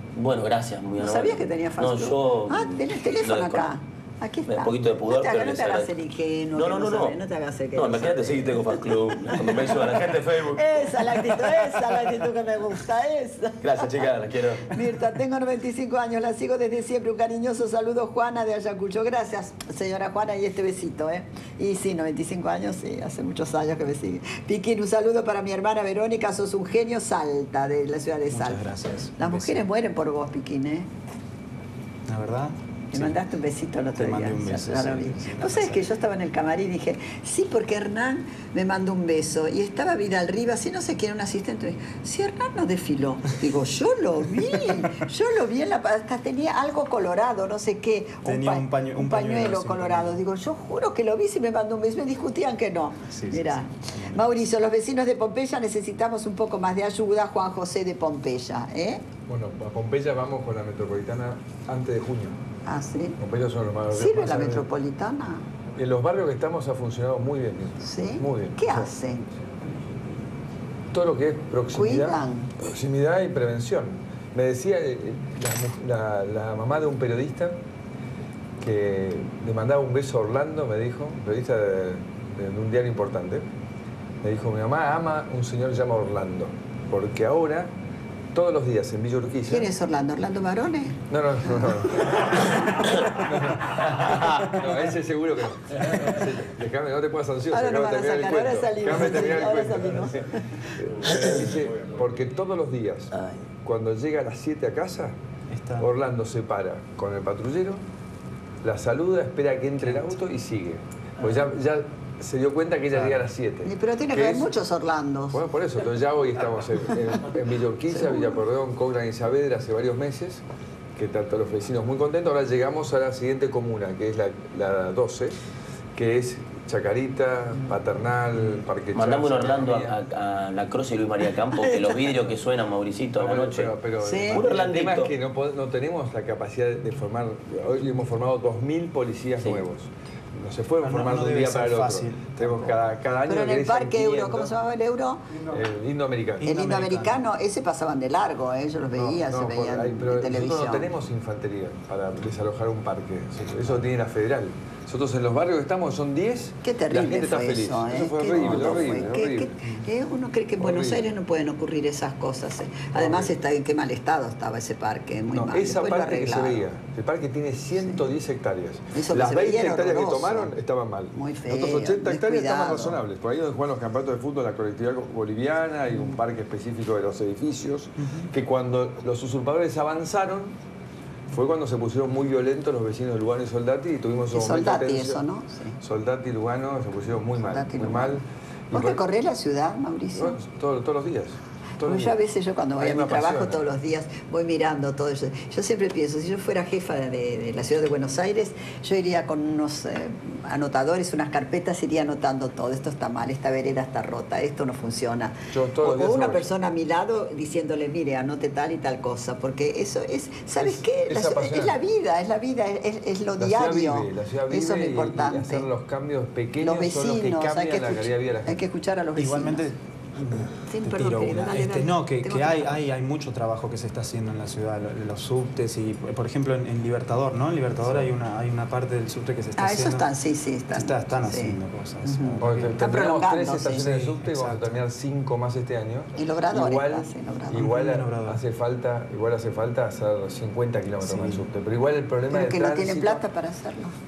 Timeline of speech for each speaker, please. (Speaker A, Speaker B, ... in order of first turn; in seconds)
Speaker A: 0.2-3.7, 4.5-5.9, 6.5-7.2, 7.7-11.2, 13.6-14.7, 128.9-133.7, 134.3-135.1
Speaker B: 1.0-9.9, 10.5-14.0, 14.7-30.9, 32.9-59.0, 62.6-63.2, 63.9-65.4, 67.8-69.3, 71.7-72.5, 89.5-91.0, 97.5-100.5, 113.6-115.4, 117.9-118.4, 131.5-132.0, 134.0-134.5, 143.2-145.3, 146.4-150.9, 156.6-166.6, 168.9-170.5, 171.1-173.0, 184.3-185.8, 187.5-188.2, 188.7-190.4, 191.8-215.7, 216.6-219.7, 220.6-222.8, 229.6-234.0, 236.2-237.7, 242.3-243.9
Speaker C: 28.3-29.6, 32.1-33.2, 34.0-35.9, 44.6-45.0, 48.2-50.2, 53.1-54.2, 105.5-105.9, 112.9-113.2, 140.8-142.8, 146.4-147.2, 219.2-230.1, 230.7-232.7, 233.8-234.8, 237.5-238.4, 241.0-241.4
Speaker D: 59.3-62.3, 63.2-64.7, 65.8-68.9, 70.9-77.6, 78.6-83.4, 84.2-87.7, 88.3-89.7, 91.1-105.2, 105.8-107.8, 108.6-114.5, 115.3-120.4, 121.0-125.4, 125.9-130.0, 133.2-144.5, 145.5-146.5, 148.9-159.6, 160.6-161.1, 162.9-163.3, 165.3-180.6, 181.3-185.2, 185.8-189.0, 190.1-192.2, 192.8-193.6, 205.5-206.5, 210.6-211.8, 213.4-218.6, 232.4-243.2